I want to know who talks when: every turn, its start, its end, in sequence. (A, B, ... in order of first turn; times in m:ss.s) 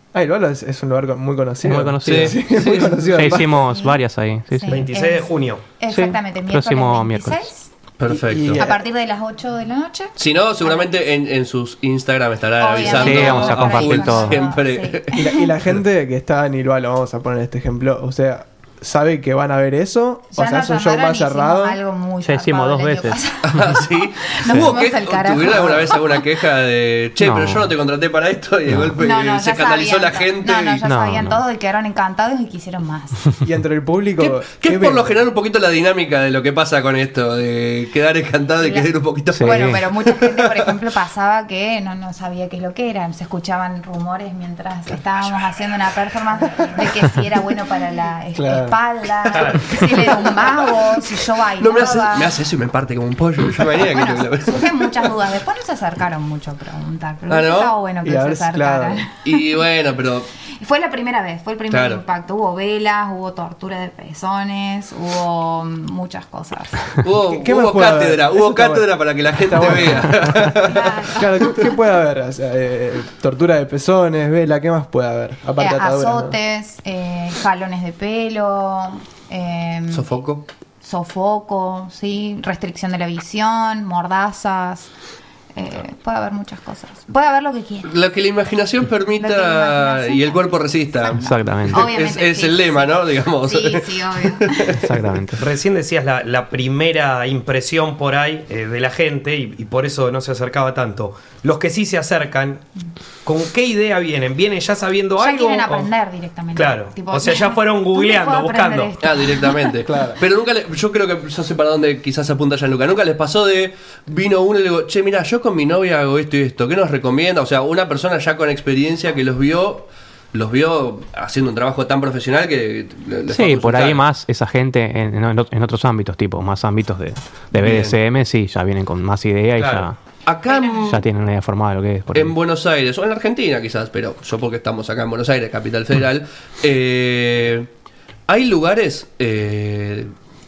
0:00.1-0:03.6 A
0:01.6-0:04.8 B
0:02.0-0:03.0 C
0:03.6-0:04.0 D
0:04.5-0:07.7 D
0:04.7-0:05.6 E
0:05.9-0:07.5 B
0:08.0-0:08.6 C
0:08.1-0:08.8 A
0:08.6-0:10.9 D
0:10.2-0:15.2 C
0:12.6-0:15.5 D
0:12.8-0:14.5 B
0:15.2-0:21.8 A
0:20.3-0:26.2 D
0:22.2-0:23.2 B
0:23.5-0:30.8 C
0:27.2-0:27.7 B
0:28.7-0:29.0 B
0:29.0-0:33.2 D
0:30.8-0:31.4 B
0:33.4-0:35.1 A
0:34.2-0:40.7 C
0:38.6-0:52.4 D
0:39.3-0:39.9 B
0:48.4-0:48.8 A
0:51.6-0:55.1 C
0:53.8-0:59.3 D
0:57.3-0:57.7 C
0:58.0-0:59.0 A
0:59.2-1:00.3 C
1:00.5-1:06.9 D
1:01.7-1:02.0 C
1:07.0-1:10.9 C
1:07.2-1:16.4 A
1:10.6-1:11.3 D
1:15.6-1:20.2 D
1:19.9-1:20.4 C
1:20.8-1:24.9 D
1:25.6-1:27.9 D
1:27.8-1:34.9 C
1:29.2-1:34.8 D
1:31.2-1:31.9 B
1:34.8-1:35.5 B
1:35.4-1:42.7 E
1:43.2-1:45.9 E
1:45.2-1:49.8 D
1:46.6-1:48.9 E
1:49.0-2:04.0 C
1:49.9-1:50.2 A
2:03.3-2:10.0 B
2:07.6-2:08.0 C
2:09.6-2:11.0 C
2:10.5-2:10.8 D
2:10.8-2:12.4 B
2:12.1-2:17.7 C
2:18.3-2:20.1 C